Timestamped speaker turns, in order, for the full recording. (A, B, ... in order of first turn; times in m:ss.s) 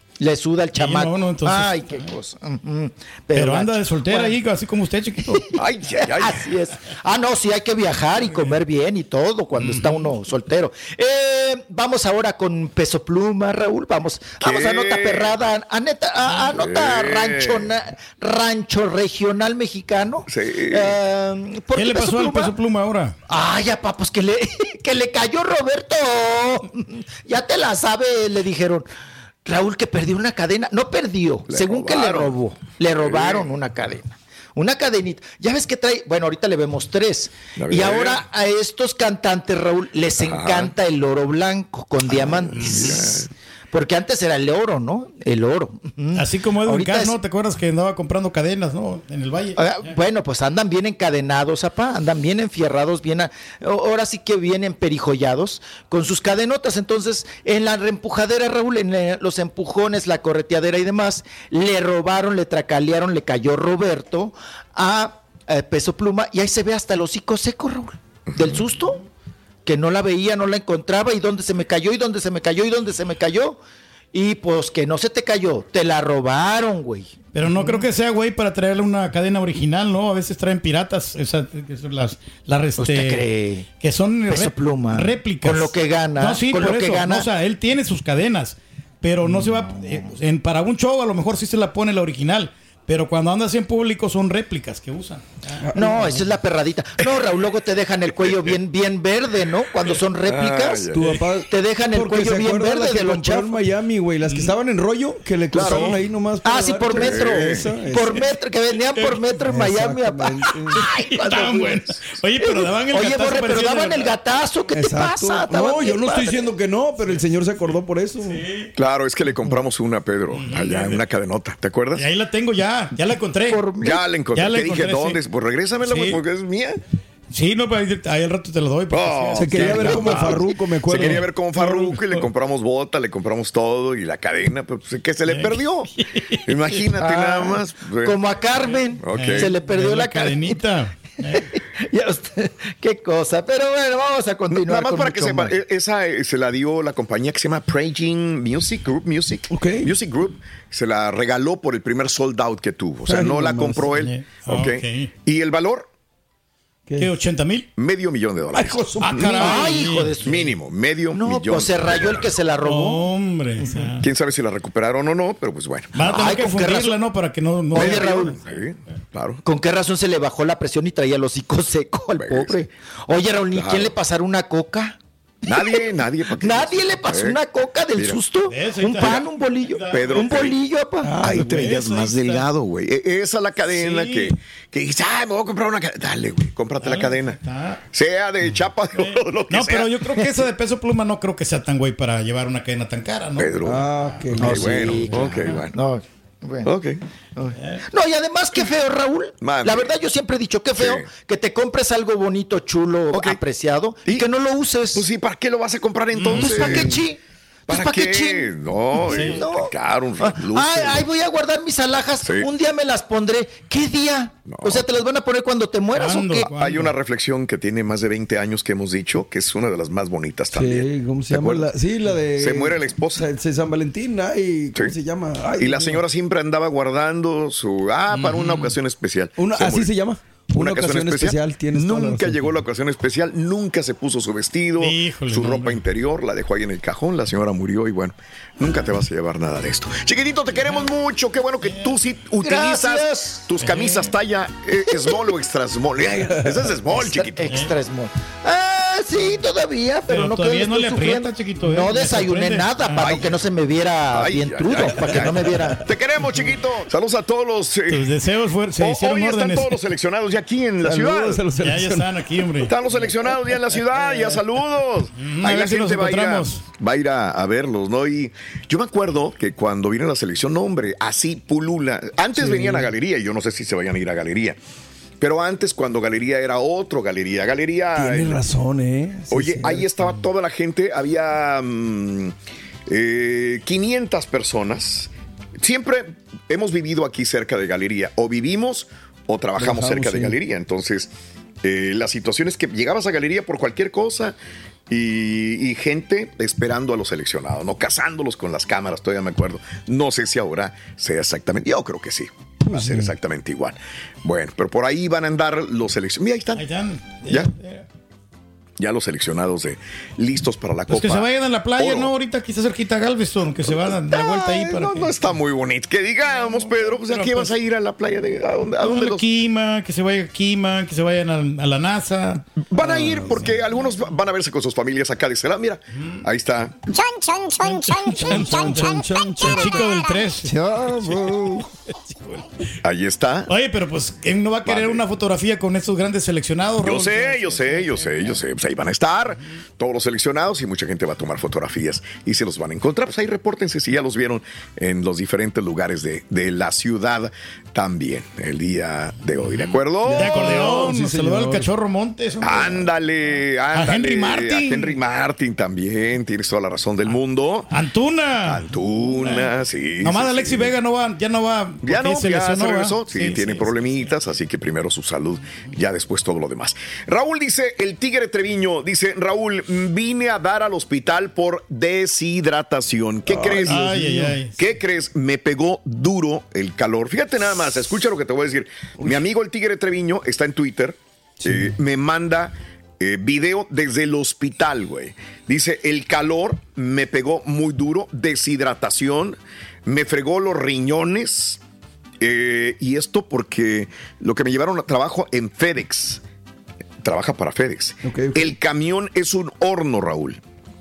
0:00.2-0:04.4 A
0:00.8-0:02.1 B
0:03.4-0:05.4 B
0:05.3-0:22.5 A
0:05.5-0:06.4 C
0:09.6-0:10.1 B
0:14.4-0:15.3 C
0:16.5-0:17.7 C
0:20.3-0:21.0 C
0:21.8-0:23.1 B
0:23.3-0:28.8 A
0:29.4-0:47.2 A
0:31.5-0:32.4 C
0:32.9-0:33.5 C
0:37.6-0:38.2 C
0:40.2-0:40.7 C
0:42.1-0:43.3 C
0:42.6-0:43.1 B
0:46.1-0:49.9 B
0:49.6-1:09.0 A
1:09.6-1:13.6 A
1:14.1-1:17.8 A
1:17.3-1:23.2 B
1:22.8-1:23.7 A
1:23.8-1:35.6 B
1:24.3-1:27.3 A
1:35.6-1:36.3 D
1:35.7-1:40.9 A
1:38.2-1:38.5 C
1:39.8-1:41.2 C
1:40.9-1:48.2 D
1:41.5-1:43.6 A
1:44.2-1:44.5 B
1:45.5-1:46.0 C
1:45.6-1:45.9 B
1:46.4-1:51.8 A
1:46.9-1:47.7 C
1:49.4-1:50.8 D
1:50.7-1:54.1 B
1:52.4-1:56.4 A
1:54.7-1:58.4 D
1:58.2-1:58.7 B
1:58.8-2:02.0 C
2:00.3-2:01.0 B
2:02.0-2:03.7 B
2:03.5-2:04.0 A
2:03.8-2:06.8 C
2:04.3-2:05.2 B
2:05.8-2:06.2 B
2:07.3-2:11.2 B
2:08.9-2:15.9 C
2:09.4-2:11.8 D
2:15.3-2:16.8 B
2:16.4-2:18.2 C
2:17.0-2:20.6 A
2:19.0-2:19.5 C
2:19.2-2:21.5 B
2:21.3-2:25.6 A
2:24.5-2:35.9 C
2:29.5-2:29.9 D
2:33.0-2:33.9 D
2:33.9-2:35.1 B
2:36.9-2:37.1 D
2:37.0-2:37.7 B
2:37.8-2:42.3 C
2:38.5-2:39.6 D
2:39.0-2:40.3 B
2:39.3-2:40.5 A
2:41.1-2:43.1 A
2:42.6-2:44.0 B
2:44.0-2:46.4 C
2:45.9-2:48.5 B
2:46.1-2:47.0 A
2:47.7-2:48.4 A
2:47.7-2:49.4 C
2:49.4-3:01.2 A
2:52.2-2:52.6 C
2:53.5-2:53.9 C
2:55.4-2:57.4 C
2:58.5-3:00.4 B
2:59.9-3:00.6 C
3:01.0-3:01.7 D
3:01.2-3:07.4 C
3:01.2-3:02.4 B
3:03.7-3:04.3 B
3:06.8-3:07.8 B
3:07.9-3:10.4 C
3:09.0-3:13.6 B
3:13.4-3:15.8 C
3:13.6-3:15.2 D
3:14.4-3:16.7 A
3:15.1-3:15.6 B
3:16.6-3:17.0 C
3:17.4-3:25.0 A
3:19.4-3:19.9 C
3:20.8-3:21.1 C
3:23.1-3:23.4 C
3:24.9-3:27.0 C
3:26.2-3:27.0 B
3:26.3-3:36.5 A
3:27.7-3:31.1 C
3:29.1-3:29.4 B
3:32.2-3:32.5 C
3:34.5-3:34.8 C
3:35.9-3:36.9 B
3:36.5-3:41.7 C
3:40.5-3:46.0 D
3:42.4-3:43.2 C
3:45.6-3:49.9 C
3:48.1-3:48.8 B
3:49.4-3:52.6 D
3:50.5-4:07.5 C
3:54.8-3:55.8 B
4:02.4-4:03.4 A
4:03.6-4:04.1 B
4:06.1-4:06.7 D
4:06.9-4:15.8 A
4:10.1-4:13.3 B
4:13.0-4:13.3 C
4:14.1-4:18.1 C
4:14.9-4:15.8 D
4:17.9-4:19.8 B
4:18.7-4:21.5 C
4:20.8-4:22.1 D
4:21.6-4:22.7 B
4:22.6-4:34.6 C
4:23.9-4:24.4 D
4:25.2-4:26.6 B
4:32.3-4:32.9 D
4:35.2-4:38.4 C
4:38.0-4:39.9 D
4:39.3-4:42.3 C
4:42.9-4:51.1 C
4:49.6-4:50.4 D
4:51.6-4:54.4 C
4:54.9-5:06.6 C
5:02.6-5:03.1 D
5:06.6-5:07.8 B
5:08.8-5:12.1 C
5:10.9-5:15.1 B
5:13.6-5:19.2 C
5:16.4-5:17.5 B
5:18.8-5:22.4 B
5:22.7-5:26.7 C
5:22.8-5:23.5 D
5:26.0-5:26.2 B
5:26.9-5:30.3 E
5:27.6-5:30.5 B
5:28.2-5:29.9 D
5:30.4-5:31.6 D
5:31.0-5:31.4 B
5:32.8-5:33.5 C
5:33.5-5:37.1 B
5:34.6-5:35.0 C
5:36.8-5:50.5 C
5:37.0-5:37.4 D
5:49.4-5:52.9 B
5:50.0-5:51.7 D
5:52.4-5:57.7 C
5:53.7-5:55.0 B
5:57.7-5:58.7 B
5:58.4-6:00.7 C
5:59.2-6:03.9 B
6:01.8-6:13.9 C
6:13.3-6:14.4 D
6:13.6-6:14.6 B
6:14.6-6:31.6 C
6:21.4-6:21.8 D
6:32.2-6:36.2 C
6:37.0-6:40.4 C
6:38.0-6:38.5 D